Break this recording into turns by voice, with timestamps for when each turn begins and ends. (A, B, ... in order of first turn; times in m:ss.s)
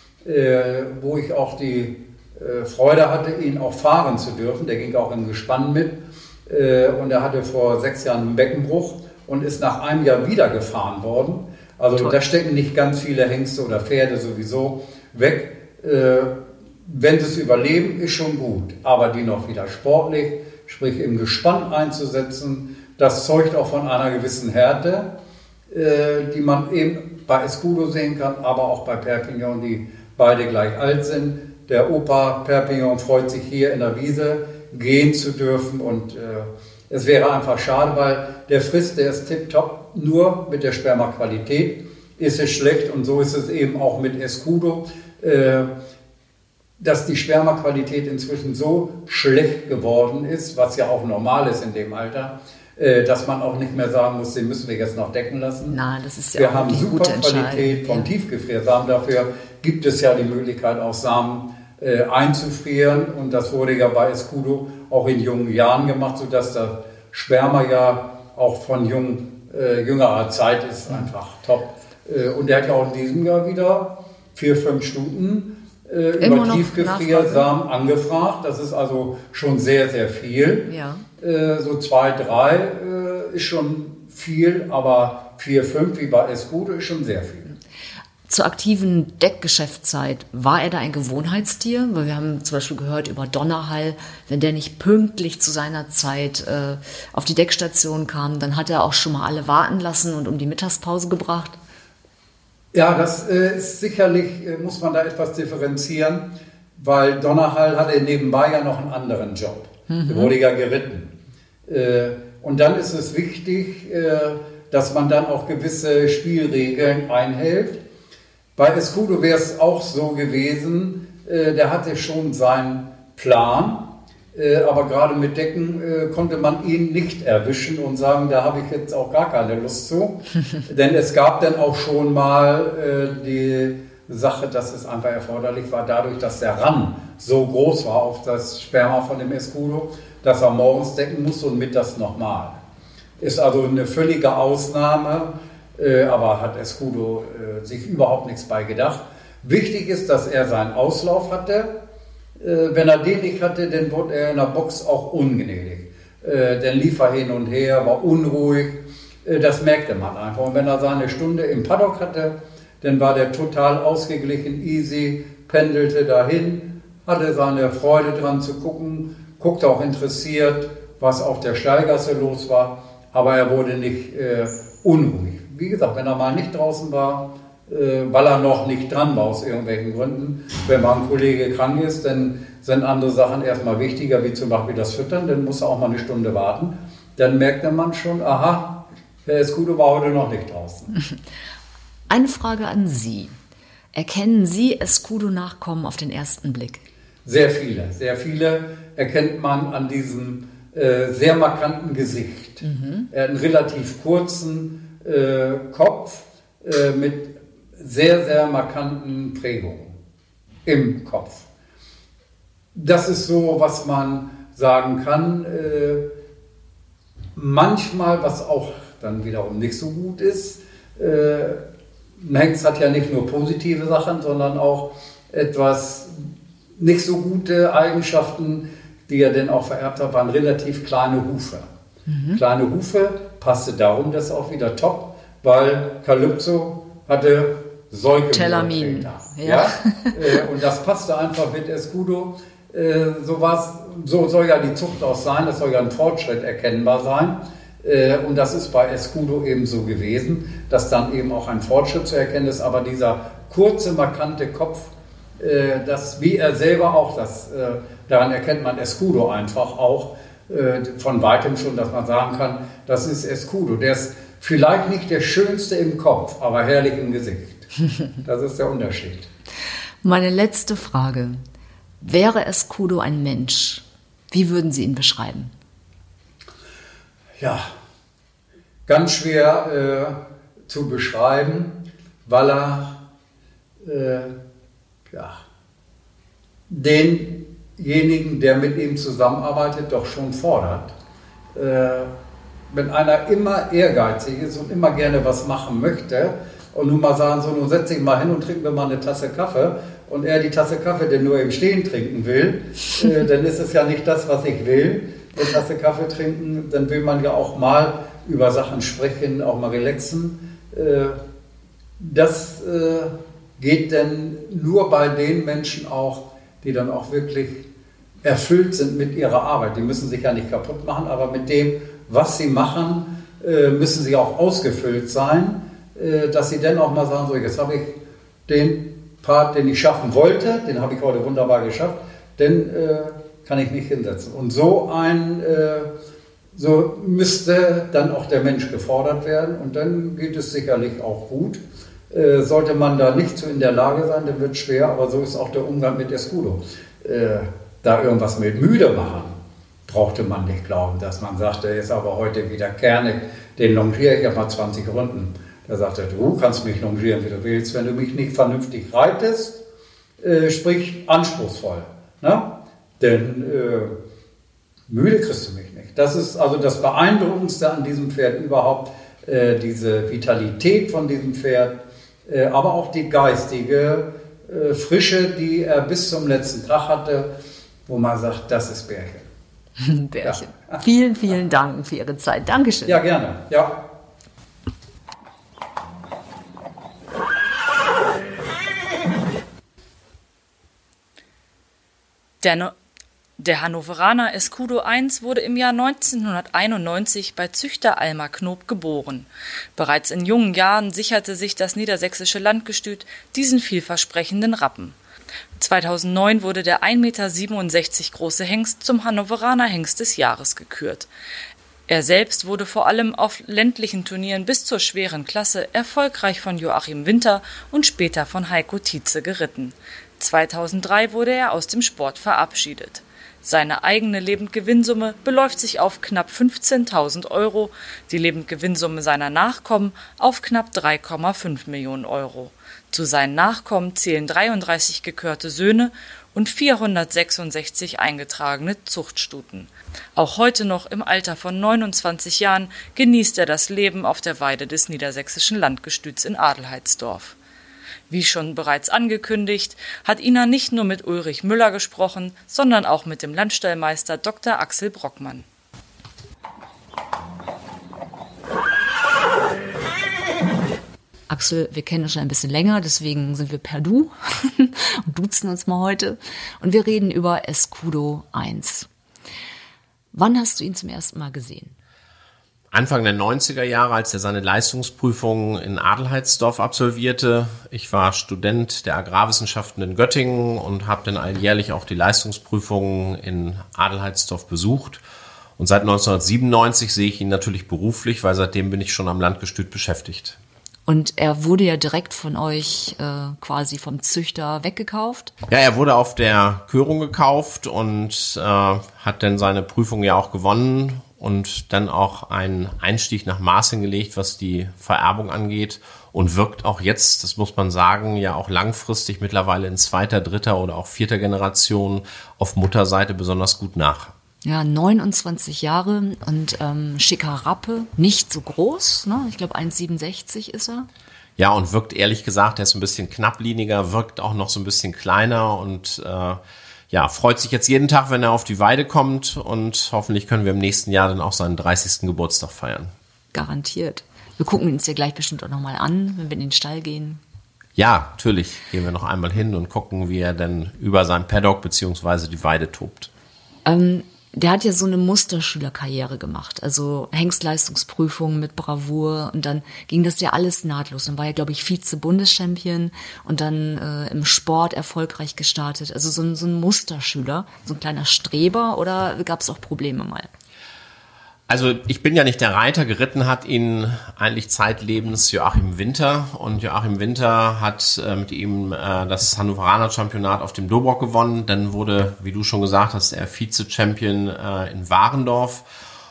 0:00.2-0:25.1 A
0:25.7-0:45.7 A
0:46.8-0:55.8 A
0:55.7-0:58.1 B
0:56.4-1:20.7 A
1:16.2-1:17.5 B
1:20.7-1:21.0 B
1:21.2-1:27.5 A
1:28.3-1:41.6 B
1:42.7-1:51.1 A
1:49.9-1:50.3 B
1:51.6-1:57.8 A
1:58.6-2:22.6 A
2:23.2-2:31.8 A
2:32.4-3:10.9 A
3:12.1-3:13.4 B
3:13.9-3:16.8 B
3:17.2-3:30.0 A
3:22.6-3:23.1 B
3:30.6-3:31.4 A
3:32.7-3:36.0 A
3:37.4-3:41.6 A
3:42.2-3:51.7 A
3:52.1-3:52.4 B
3:52.3-4:27.7 A
3:58.3-4:00.4 B
4:28.2-4:29.3 A
4:30.0-4:31.4 B
4:32.0-4:35.5 B
4:37.4-4:37.7 A
4:38.9-4:43.0 A
4:43.8-4:44.4 A
4:45.1-4:45.4 A
4:46.7-4:50.9 A
4:51.5-4:52.1 A
4:52.7-5:11.2 A
5:12.0-5:17.7 A
5:18.2-5:27.9 A
5:28.5-5:35.9 A
5:36.5-5:59.6 A
6:00.2-6:04.0 A
6:04.9-6:17.3 A
6:17.9-6:19.3 A
6:19.8-6:23.0 B
6:20.2-6:20.8 A
6:22.9-6:23.9 A
6:32.4-6:32.7 C
6:33.4-6:45.0 C
6:45.6-6:51.1 C
6:51.9-7:27.4 C
7:28.1-7:35.4 C
7:41.3-7:48.9 B
7:50.1-7:51.8 B
7:52.7-8:05.0 D
8:05.6-8:10.4 D
8:10.9-8:15.3 B
8:15.5-8:34.1 D
8:34.4-8:40.9 B
8:41.4-8:46.4 D
8:46.9-8:52.9 D
8:53.3-8:57.2 B
8:57.8-9:03.1 D
9:03.6-9:20.3 B
9:21.5-9:35.6 D